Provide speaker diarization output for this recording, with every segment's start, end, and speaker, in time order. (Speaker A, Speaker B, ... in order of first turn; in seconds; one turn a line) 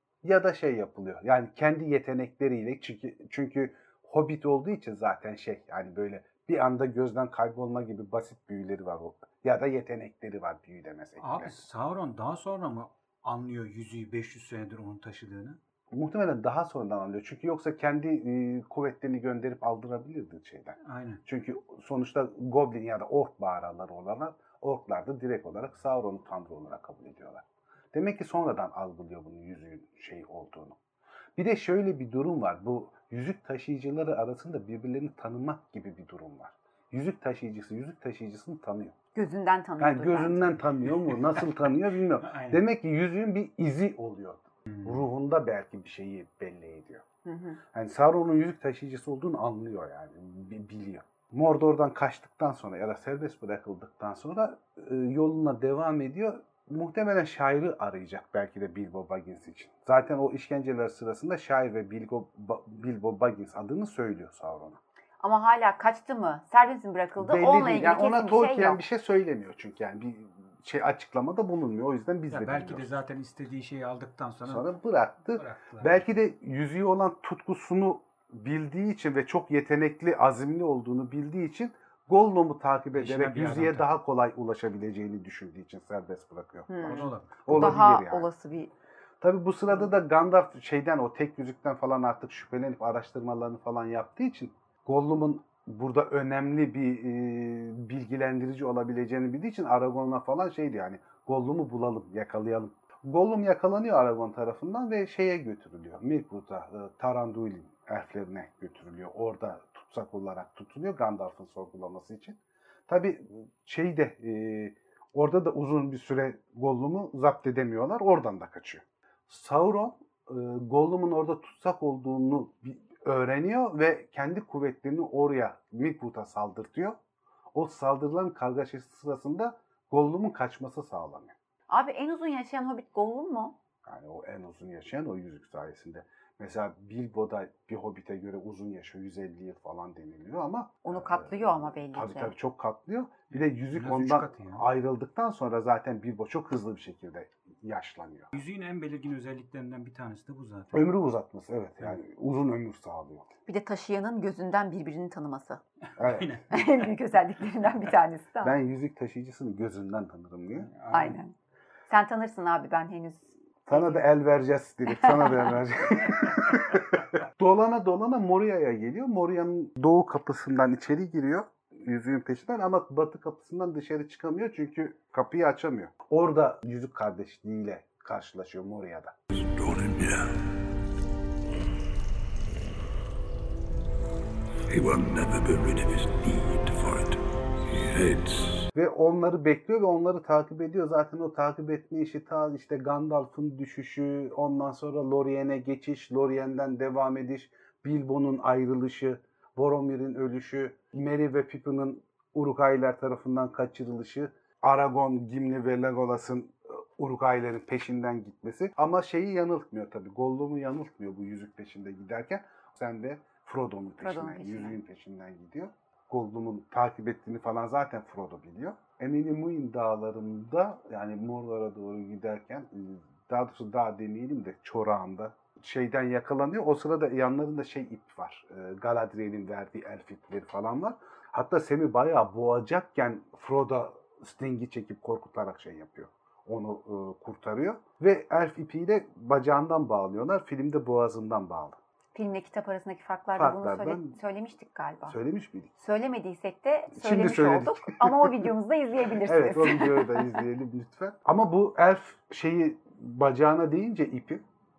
Speaker A: 0.2-11.6
Speaker B: 11.2-15.6
Speaker A: 15.9-30.8
Speaker B: 20.8-21.2
Speaker A: 31.4-38.9
Speaker C: 39.1-40.5
Speaker A: 39.8-47.0
Speaker B: 41.1-41.4
Speaker B: 42.2-42.6
Speaker B: 44.7-45.1
Speaker C: 47.2-47.6
Speaker A: 47.7-64.8
Speaker C: 65.2-68.8
Speaker A: 67.2-72.9
Speaker B: 72.3-74.7
Speaker A: 74.5-88.3
Speaker B: 75.4-76.1
Speaker B: 82.9-83.9
Speaker C: 86.7-88.7
Speaker B: 86.8-87.8
Speaker A: 89.2-112.4
Speaker A: 112.9-127.0
Speaker A: 127.5-131.3
Speaker C: 131.7-133.6
Speaker A: 133.8-148.3
Speaker C: 140.8-142.3
Speaker B: 143.3-144.7
Speaker B: 148.3-150.9
Speaker A: 150.7-153.3
Speaker C: 153.5-155.6
Speaker A: 156.0-156.4
Speaker B: 156.0-156.5
Speaker C: 156.5-158.6
Speaker A: 158.4-160.7
Speaker B: 160.6-161.2
Speaker C: 160.9-161.3
Speaker C: 161.9-164.1
Speaker A: 163.7-179.2
Speaker C: 164.9-165.6
Speaker D: 179.3-180.3
Speaker D: 184.7-188.6
Speaker A: 188.7-241.8
Speaker C: 214.0-214.8
Speaker C: 242.2-245.2
Speaker A: 243.4-244.2
Speaker A: 245.1-245.7
Speaker C: 245.8-250.4
Speaker A: 246.9-248.4
Speaker A: 249.2-254.4